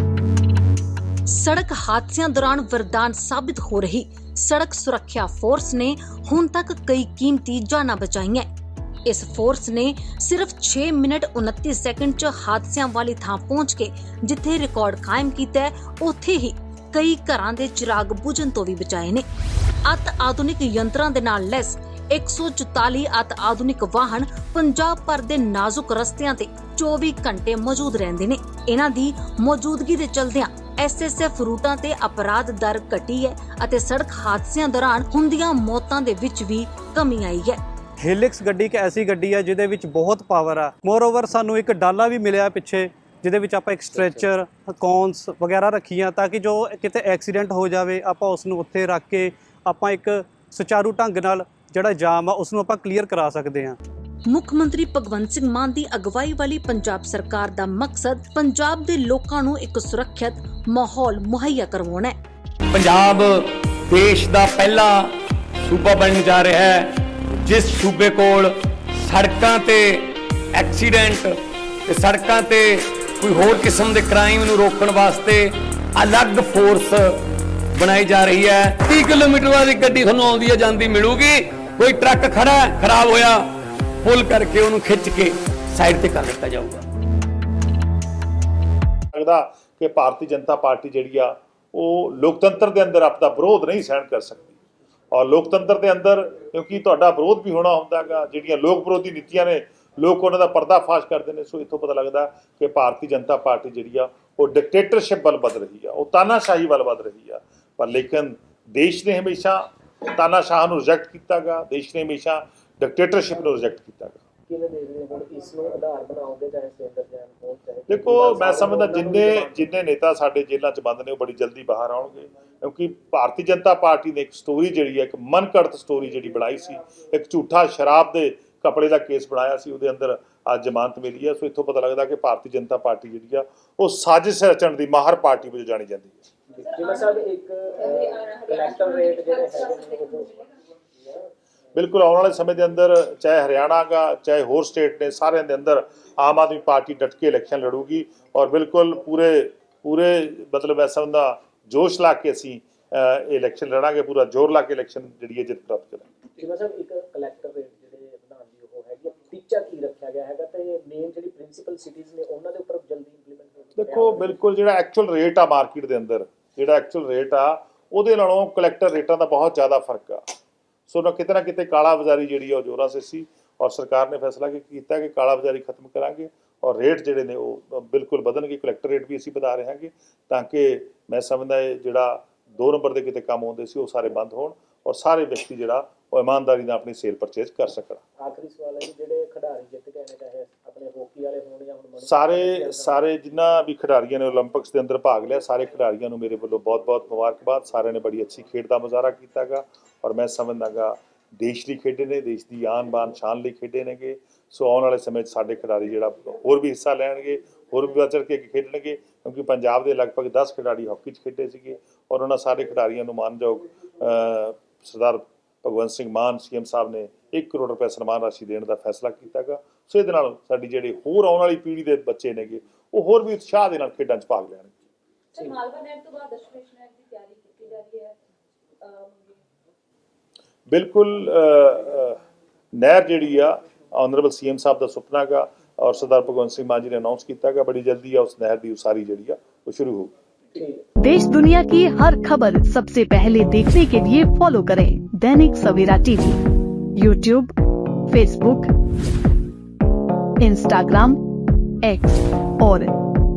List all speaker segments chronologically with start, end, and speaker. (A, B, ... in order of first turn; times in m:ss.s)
0:01.3-0:08.5 A
0:09.1-0:19.2 A
0:19.8-0:37.6 A
0:38.0-0:53.8 B
0:54.3-1:02.2 A
1:02.7-1:17.2 C
1:17.7-1:23.5 C
1:24.0-1:26.8 C
1:29.1-1:34.6 D
1:35.1-1:54.2 D
1:54.5-1:59.6 E
1:57.9-2:16.2 D
2:16.5-2:20.4 E
2:18.1-2:20.2 F
2:21.7-2:36.1 D
2:36.4-2:44.4 E
2:43.8-2:50.2 D
2:50.9-3:08.0 D
3:08.2-3:13.0 E
3:12.0-3:44.8 D
3:45.4-3:48.2 F
3:48.9-3:49.2 F
3:50.7-3:52.2 D
3:52.7-4:00.1 D
4:00.6-4:00.8 E
4:01.0-4:06.4 G
4:07.0-4:07.6 G
4:08.1-4:08.7 G
4:10.4-4:11.2 G
4:11.8-4:12.9 G